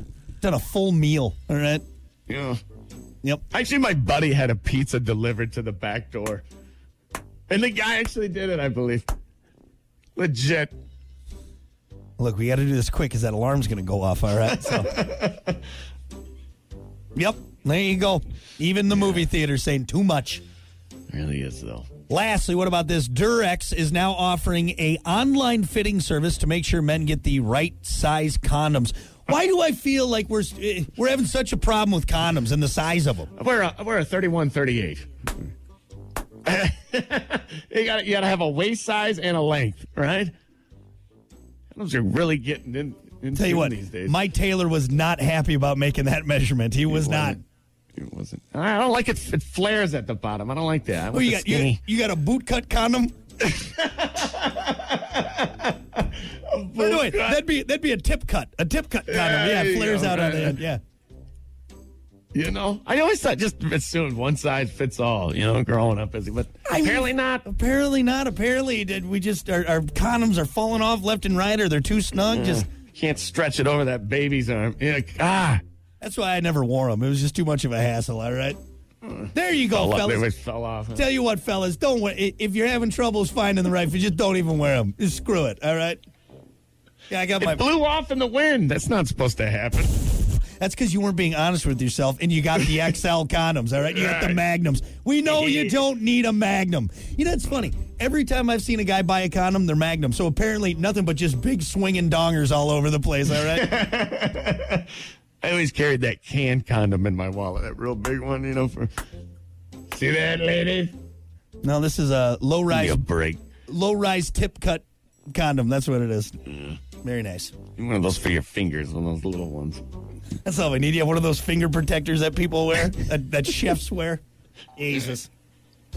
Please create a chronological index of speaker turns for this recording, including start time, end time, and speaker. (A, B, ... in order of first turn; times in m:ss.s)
0:00.4-0:01.8 A
0:02.3-0:02.6 B
0:03.5-0:06.4 B
0:07.5-0:09.1 B
0:10.2-0:10.7 B
0:12.2-0:15.0 A
0:14.5-0:15.5 B
0:17.2-0:20.4 A
0:21.1-0:21.9 B
0:22.1-0:33.3 A
0:33.4-0:35.1 B
0:36.4-0:40.3 B
0:41.7-0:44.2 B
0:43.3-0:47.4 A
0:46.9-0:47.4 B
0:48.0-0:51.8 B
0:51.1-0:53.2 A
0:53.4-0:57.4 B
0:56.8-1:00.8 A
0:59.1-1:00.6 B
1:02.3-1:07.5 B
1:06.7-1:12.7 A
1:12.3-1:15.6 B
1:16.0-1:18.6 A
1:19.1-1:21.0 B
1:19.3-1:20.3 A
1:20.9-1:26.0 A
1:27.1-1:27.6 A
1:27.4-1:30.1 B
1:30.1-1:43.7 A
1:33.9-1:34.4 B
1:35.3-1:35.8 B
1:43.3-1:48.9 B
1:49.9-1:51.0 B
1:51.6-1:53.0 A
1:52.7-1:53.4 B
1:53.7-1:56.4 A
1:57.0-1:57.5 A
1:57.8-1:59.8 B
2:00.4-2:04.2 A
2:04.8-2:05.3 A